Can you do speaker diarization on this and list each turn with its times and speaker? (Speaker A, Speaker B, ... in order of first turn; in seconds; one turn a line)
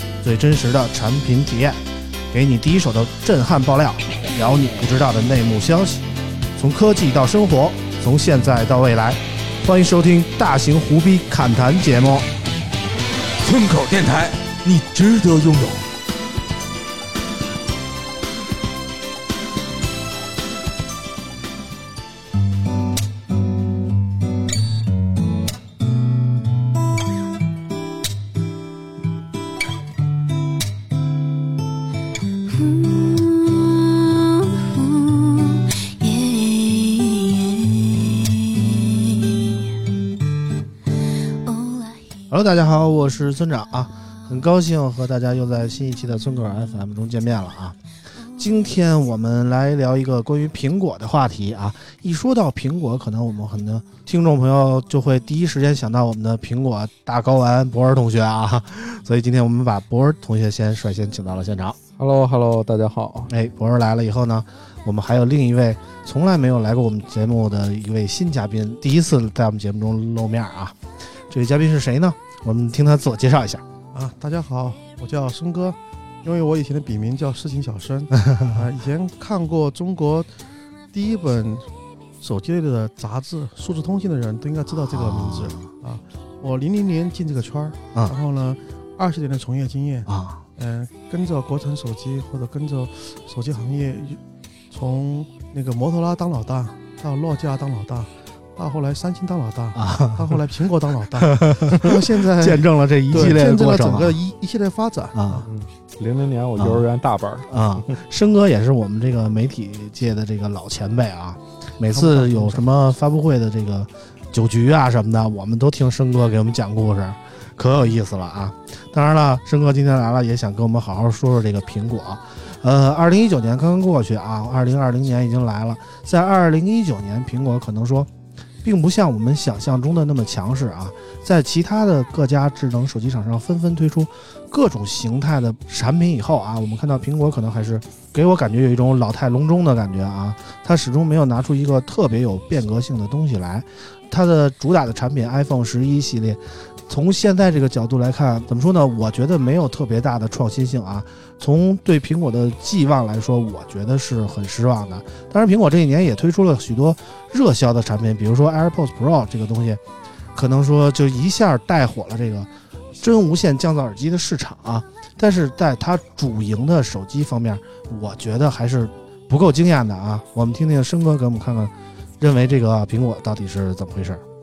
Speaker A: 0.2-12.3
Speaker B: 13.4-15.8
Speaker B: 32.5-40.0
Speaker B: 40.9-42.2
Speaker A: 42.3-47.8
Speaker B: 44.0-44.4
Speaker B: 48.1-48.8
Speaker A: 48.4-61.8
Speaker C: 62.0-63.3
Speaker A: 63.3-70.8
Speaker A: 71.3-73.6
Speaker D: 73.9-80.3
Speaker A: 78.2-78.6
Speaker D: 80.9-81.7
Speaker D: 82.2-94.2
Speaker A: 84.8-85.7
Speaker A: 90.1-90.4
Speaker D: 94.7-105.5
Speaker A: 99.8-100.5
Speaker A: 101.2-104.2
Speaker A: 105.2-105.5
Speaker C: 105.5-108.0
Speaker A: 106.6-106.9
Speaker A: 107.5-128.1
Speaker D: 111.9-112.6
Speaker A: 128.6-159.8
Speaker A: 160.3-174.2